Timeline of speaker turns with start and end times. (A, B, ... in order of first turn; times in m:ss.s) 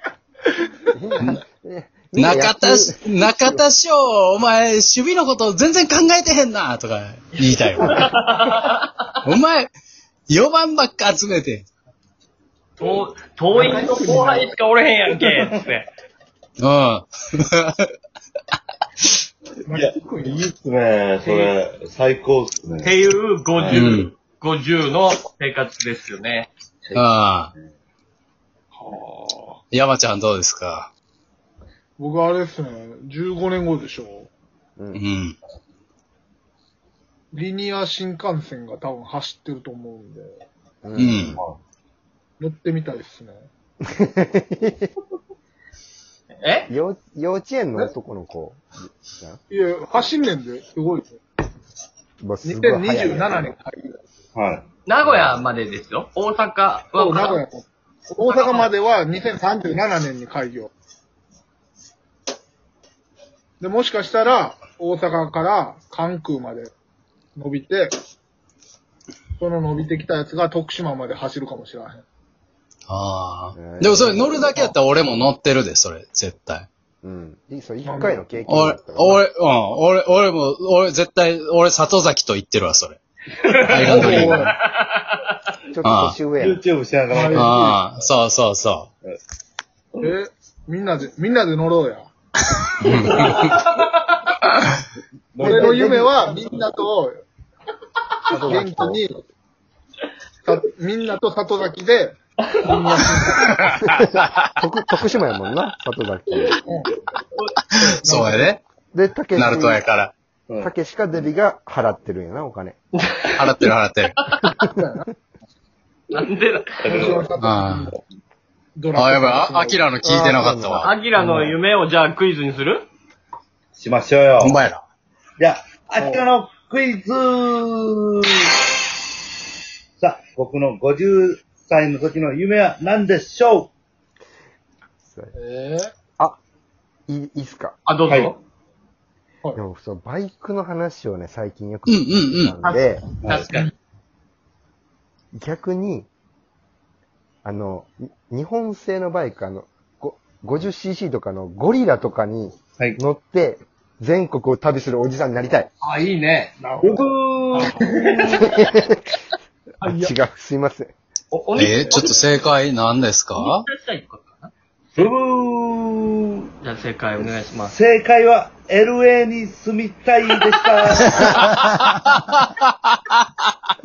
0:00.9-0:03.6 A
0:02.2-0:08.3 B
0:07.4-0:09.1 C
0:09.2-0:09.7 B
0:10.3-0:11.6 B
0:12.8-0:15.9 C
0:13.5-0:14.5 D
0:16.6-0:17.8 B
0:19.7-0:20.4 D
0:19.7-0:23.0 E
0:21.2-0:21.5 C
0:22.8-0:26.5 C
0:23.5-0:24.0 E
0:23.7-0:24.1 B
0:26.8-0:27.7 E
0:26.9-0:27.5 B
0:28.7-0:29.6 D
0:29.7-0:30.9 B
0:32.0-0:34.3 D
0:34.8-0:35.0 A
0:34.9-0:35.4 B
0:37.3-0:40.4 D
0:40.8-0:41.4 A
0:41.0-0:41.4 B
0:42.4-0:43.5 D
0:43.8-0:44.9 A
0:46.4-0:46.7 C
0:46.7-0:49.4 A
0:49.5-0:51.2 D
0:52.2-0:53.4 A
0:52.4-0:54.0 D
0:54.3-0:54.6 E
0:54.8-0:57.4 C
0:56.9-1:00.7 D
0:58.2-0:58.7 C
1:03.6-1:06.7 D
1:07.4-1:07.9 D
1:09.4-1:12.0 D
1:12.9-1:16.7 B
1:13.6-1:14.3 A
1:17.0-1:19.2 A
1:17.8-1:18.2 D
1:18.5-1:23.0 B
1:23.4-1:25.3 C
1:23.7-1:24.5 B
1:23.7-1:24.5 D
1:23.8-1:24.3 E
1:25.7-1:26.6 A
1:25.8-1:26.2 B
1:26.4-1:28.1 E
1:27.1-1:27.8 D
1:27.3-1:28.9 B
1:30.0-1:32.1 D
1:32.8-1:33.6 B
1:33.2-1:34.3 C
1:35.3-1:36.0 E
1:35.4-1:37.2 D
1:35.5-1:36.0 A
1:38.3-1:39.2 D
1:38.3-1:39.0 A
1:40.4-1:43.6 D
1:43.3-1:44.5 B
1:43.8-1:46.6 A
1:47.4-1:47.8 C
1:47.7-1:48.6 B
1:48.0-1:48.5 D
1:48.9-1:49.8 A
1:49.3-1:50.1 B
1:50.6-1:52.8 A
1:53.1-1:53.4 C
1:53.3-1:54.2 B
1:54.6-1:55.0 D
1:56.1-1:56.7 C
1:56.8-1:57.3 E
1:56.8-1:58.0 D
1:57.4-1:57.9 B
1:58.8-1:59.9 D
1:58.9-2:01.5 B
2:00.0-2:00.9 A
2:00.8-2:02.8 C
2:03.7-2:04.6 E
2:04.4-2:04.8 B
2:05.4-2:08.5 E
2:06.0-2:06.3 D
2:10.0-2:13.7 E
2:15.4-2:15.9 D
2:17.1-2:17.8 A
2:17.8-2:18.4 C
2:18.1-2:18.3 E
2:19.5-2:23.0 A
2:21.9-2:22.6 B
2:22.6-2:23.7 C
2:23.2-2:23.5 E
2:25.3-2:26.1 A
2:27.4-2:35.7 A
2:35.8-2:36.5 C
2:36.6-2:38.0 D
2:36.8-2:38.4 E
2:38.5-2:39.0 A
2:39.8-2:40.1 D
2:39.8-2:40.9 A
2:41.3-2:42.2 C
2:41.6-2:43.6 B
2:43.4-2:45.1 C
2:45.0-2:46.5 E
2:46.6-2:47.7 C
2:47.6-2:51.4 E
2:51.1-2:53.2 B